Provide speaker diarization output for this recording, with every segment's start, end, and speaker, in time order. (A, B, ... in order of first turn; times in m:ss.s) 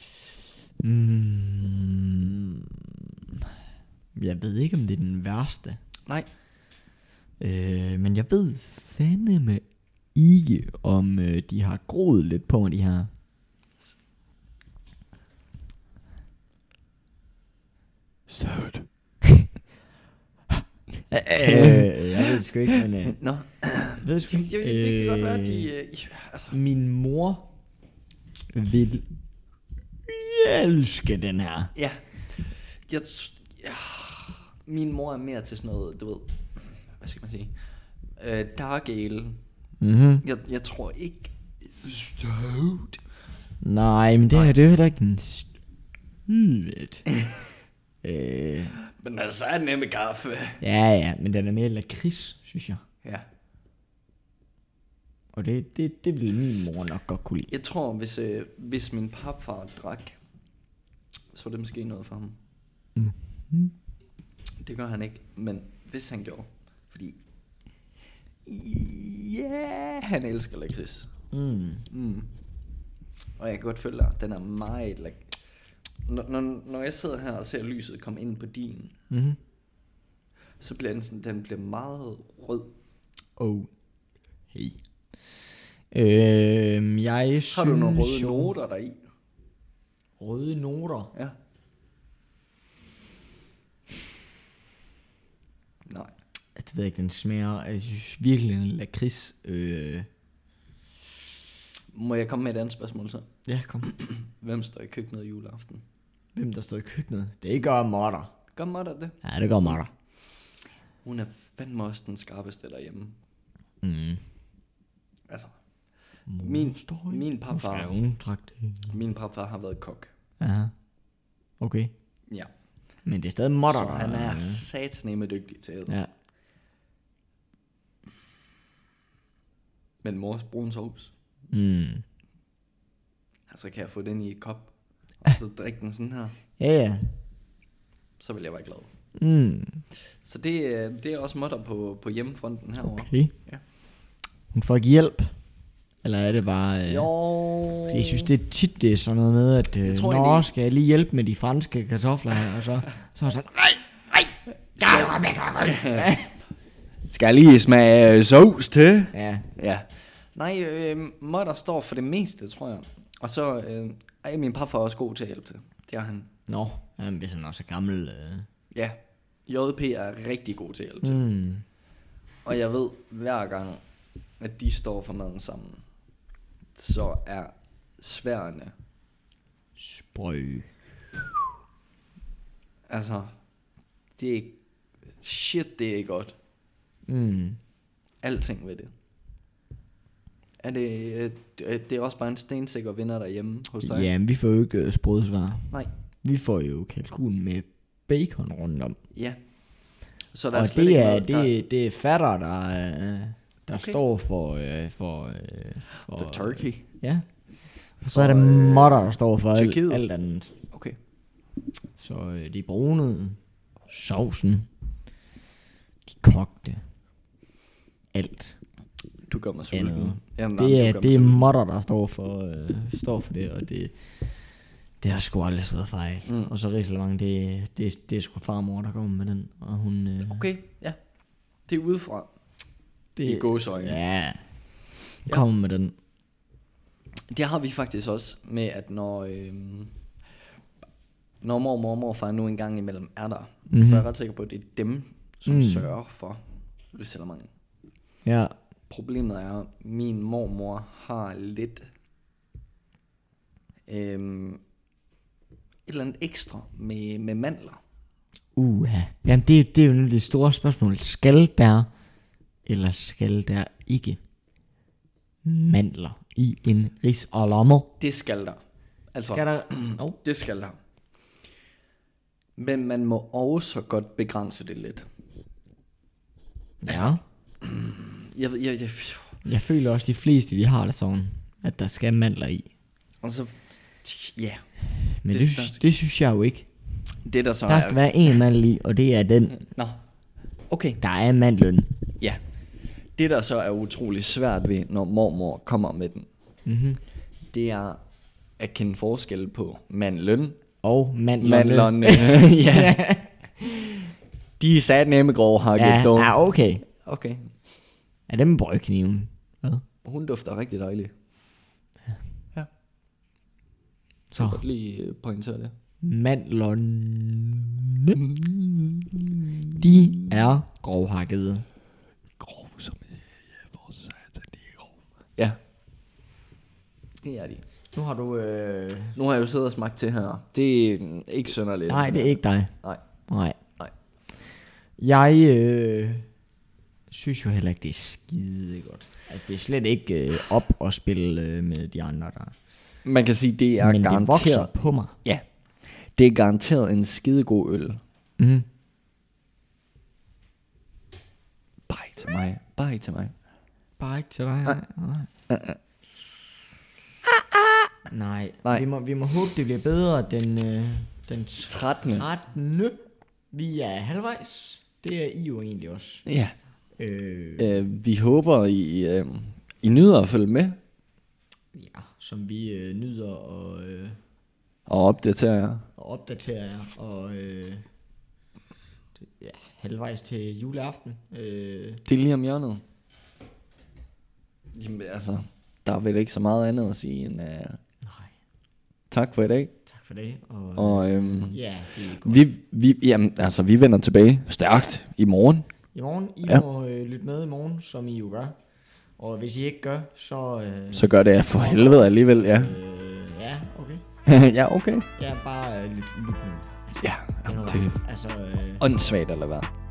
0:00.8-0:02.3 A
0:04.2-0:05.8 A
0:07.4-0:09.6 A
0:10.1-0:13.1 A
0:18.3-0:18.9 B
0:21.1-0:23.2 A
0:21.4-0:21.9 B
0:23.0-0:26.6 B
0:24.0-0:25.7 A
0:26.5-0:27.5 A
0:28.5-0:29.0 A
0:30.1-0:31.7 A
0:31.7-0:39.4 B
0:39.8-0:40.2 A
0:40.2-0:43.0 B
0:43.6-0:45.5 A
0:44.3-0:44.6 B
0:46.3-0:47.0 A
0:48.0-0:48.7 A
0:48.7-0:50.6 B
0:50.6-0:52.8 A
0:55.3-0:57.5 A
0:57.5-1:00.2 B
1:01.3-1:02.4 B
1:03.0-1:03.7 A
1:04.6-1:07.2 B
1:08.4-1:11.1 B
1:11.3-1:11.9 A
1:11.9-1:12.3 B
1:13.4-1:15.4 B
1:16.0-1:18.9 B
1:19.1-1:19.4 A
1:20.6-1:22.7 B
1:23.4-1:23.7 A
1:24.5-1:24.8 A
1:25.9-1:28.5 A
1:27.5-1:29.0 B
1:30.2-1:31.1 A
1:35.8-1:36.1 B
1:36.6-1:40.1 A
1:41.9-1:43.3 B
1:43.4-1:43.9 A
1:43.8-1:45.8 B
1:46.3-1:48.3 A
1:48.5-1:49.8 B
1:49.2-1:49.9 A
1:51.0-1:53.2 B
1:53.8-1:54.2 A
1:55.3-1:55.6 B
1:56.3-1:59.0 A
1:56.4-1:57.9 B
1:58.9-2:00.1 B
2:00.4-2:00.7 A
2:01.6-2:01.9 A
2:03.0-2:04.6 A
2:03.6-2:06.0 B
2:10.0-2:11.1 B
2:11.5-2:12.0 A
2:13.5-2:16.4 B
2:16.6-2:17.2 A
2:18.2-2:18.9 B
2:19.2-2:19.8 A
2:20.0-2:23.6 B
2:22.8-2:23.3 A
2:24.5-2:25.3 A
2:26.0-2:34.2 A
2:26.9-2:28.3 B
2:29.8-2:30.5 B
2:34.8-2:36.1 B
2:34.8-2:36.3 A
2:37.1-2:46.3 B
2:39.1-2:39.5 A
2:46.5-2:48.5 A
2:48.7-2:51.2 B
2:51.0-2:51.6 A
2:52.4-2:53.8 B
2:54.4-2:55.8 B
2:56.7-2:58.7 B
2:59.8-3:00.7 A
3:02.9-3:03.3 B
3:04.1-3:04.6 B
3:05.2-3:06.4 B
3:07.0-3:07.6 A
3:08.2-3:08.9 B
3:10.6-3:14.1 B
3:13.8-3:19.0 A
3:19.1-3:19.4 B
3:20.3-3:21.5 B
3:20.5-3:27.2 A
3:23.7-3:24.0 B
3:26.0-3:26.9 B
3:28.0-3:30.5 A
3:28.0-3:30.0 B
3:30.7-3:31.0 B
3:32.0-3:33.4 A
3:33.9-3:34.7 A
3:36.0-3:36.8 A
3:38.1-3:38.6 A
3:39.3-3:41.5 B
3:39.7-3:43.9 A
3:45.0-3:50.5 A
3:50.2-3:51.0 B
3:51.7-3:52.3 B
3:53.2-3:54.4 A
3:53.2-3:54.0 B
3:55.2-3:55.9 A
3:57.3-3:59.9 B
4:01.4-4:07.5 B
4:03.7-4:04.1 A
4:05.4-4:05.9 A
4:08.2-4:08.5 A
4:08.9-4:11.9 B
4:13.9-4:14.6 B
4:15.8-4:17.8 B
4:18.6-4:21.9 A
4:22.6-4:24.2 A
4:25.4-4:27.9 A
4:28.0-4:28.6 B
4:29.1-4:30.8 B
4:29.3-4:30.2 A
4:32.6-4:35.1 B
4:36.8-4:37.2 A
4:36.9-4:39.4 B
4:39.4-4:42.7 A
4:43.2-4:45.8 B
4:45.2-4:46.7 A
4:47.2-4:48.4 B
4:47.7-4:49.7 A
4:49.6-4:50.0 B
4:50.7-4:51.0 B
4:51.0-4:51.9 A
4:53.1-4:56.3 B
4:56.6-4:57.0 A
4:57.5-4:58.0 B
4:58.6-5:00.6 B
5:00.8-5:04.1 A
5:01.4-5:03.0 B
5:04.6-5:06.4 B
5:05.8-5:06.8 A
5:07.0-5:07.5 B
5:08.3-5:09.8 A
5:10.0-5:11.1 B
5:14.3-5:14.6 A
5:14.4-5:15.7 B
5:16.0-5:18.2 A
5:18.2-5:20.0 B
5:19.8-5:21.6 A
5:22.4-5:25.6 B
5:27.2-5:27.6 B
5:27.9-5:29.2 A
5:29.1-5:33.0 B
5:31.9-5:32.7 A
5:33.3-5:33.6 A
5:35.0-5:36.2 A
5:37.1-5:42.5 A
5:43.0-5:48.0 B
5:43.8-5:45.2 A
5:48.4-5:48.6 A
5:51.9-5:53.3 B
5:54.0-5:55.3 A
5:55.5-5:55.8 B
5:58.1-6:03.0 A
6:01.6-6:02.3 B
6:03.5-6:06.2 A
6:06.2-6:06.5 B
6:07.0-6:07.8 A
6:07.6-6:10.8 B
6:11.7-6:14.2 A
6:14.9-6:15.8 B
6:16.0-6:17.8 A
6:19.2-6:22.0 A
6:22.0-6:22.8 B
6:24.7-6:27.8 B
6:28.0-6:28.3 A
6:29.1-6:29.7 B
6:29.8-6:32.4 A
6:30.7-6:31.6 B
6:32.2-6:35.7 B
6:35.9-6:38.5 A
6:39.2-6:44.0 A
6:40.9-6:42.7 B
6:44.2-6:45.1 B
6:45.2-6:48.8 A
6:47.0-6:48.0 B
6:48.8-6:49.7 B